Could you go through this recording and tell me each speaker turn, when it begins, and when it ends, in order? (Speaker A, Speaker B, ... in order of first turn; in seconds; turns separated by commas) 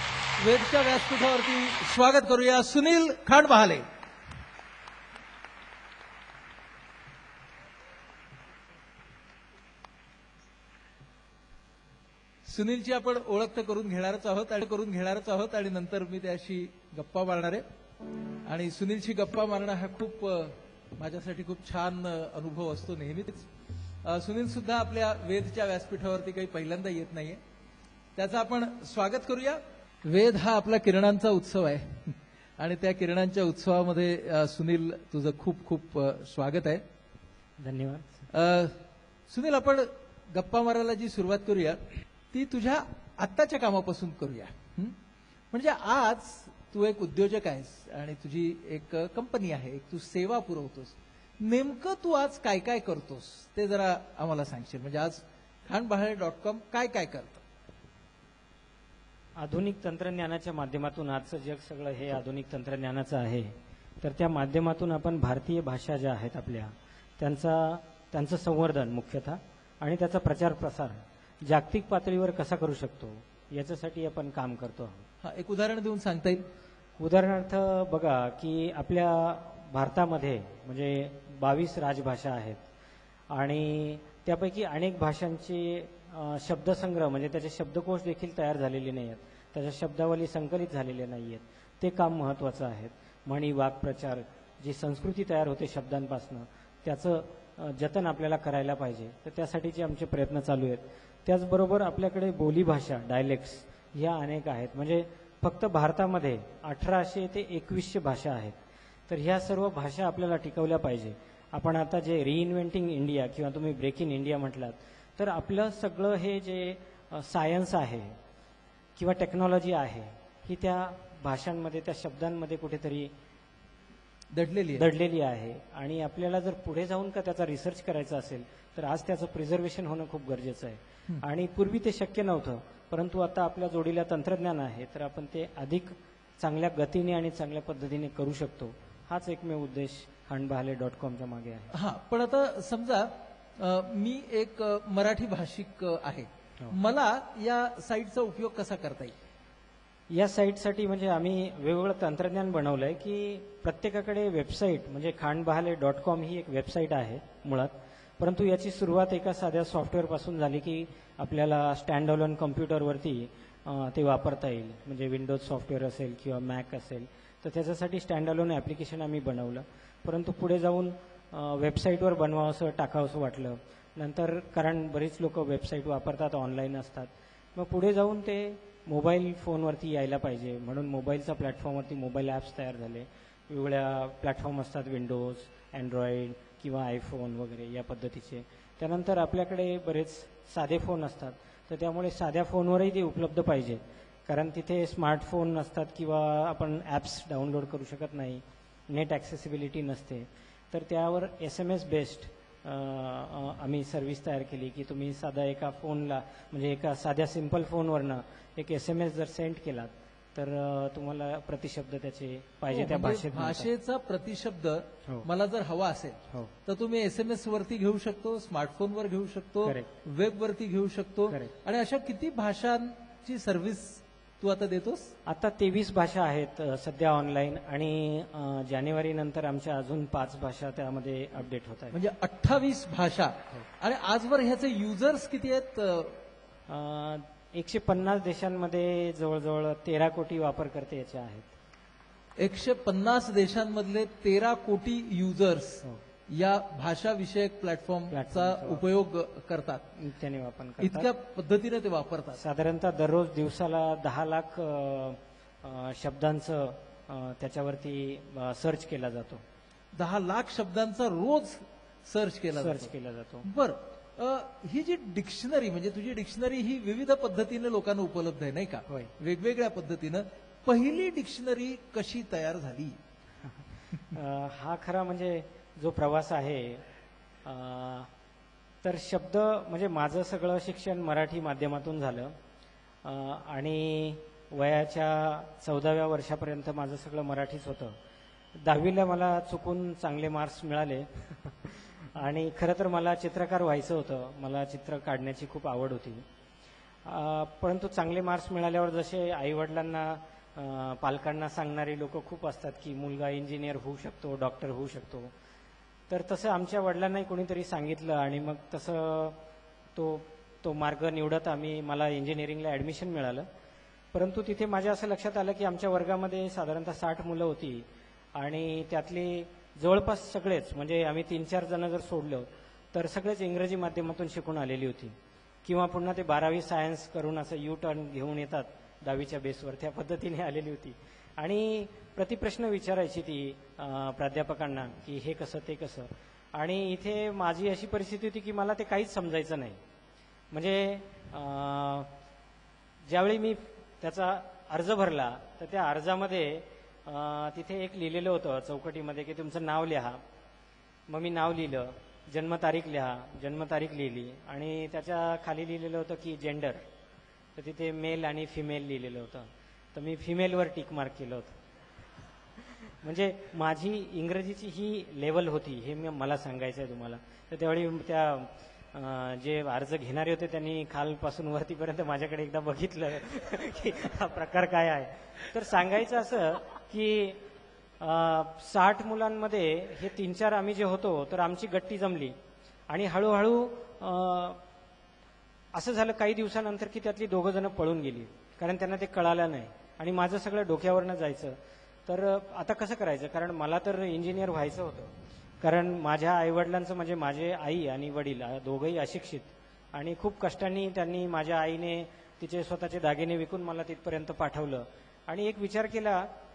Speaker A: 0.4-3.9, Speaker A: 12.5-17.6, Speaker A: 18.5-23.5, Speaker A: 24.0-27.4, Speaker A: 28.2-36.8, Speaker B: 37.6-38.2, Speaker A: 38.3-45.0, Speaker A: 45.5-57.4, Speaker B: 59.4-75.1, Speaker A: 75.2-76.4, Speaker B: 77.0-82.6, Speaker B: 83.3-108.6, Speaker B: 109.1-118.2, Speaker B: 119.0-123.1, Speaker A: 124.3-124.9, Speaker B: 124.8-141.7, Speaker A: 141.7-149.2, Speaker B: 150.1-213.7, Speaker A: 212.7-225.1, Speaker B: 225.3-232.0, Speaker A: 231.9-236.2, Speaker B: 236.7-241.5, Speaker A: 242.4-249.9, Speaker B: 248.1-248.8, Speaker B: 250.0-251.1, Speaker A: 250.8-252.4, Speaker B: 252.4-259.4, Speaker A: 259.9-262.9, Speaker B: 262.6-263.5, Speaker A: 263.4-273.0, Speaker B: 273.5-276.8, Speaker B: 277.4-278.1, Speaker B: 278.8-282.4, Speaker B: 283.0-287.9, Speaker B: 288.6-296.3, Speaker B: 297.0-305.3, Speaker B: 306.1-309.4, Speaker B: 309.9-313.5, Speaker B: 314.1-339.8, Speaker B: 340.5-342.1, Speaker B: 343.1-350.2, Speaker B: 351.1-356.9, Speaker B: 357.6-361.6, Speaker B: 362.6-377.4, Speaker B: 378.0-382.4, Speaker B: 382.9-384.6, Speaker B: 385.7-406.3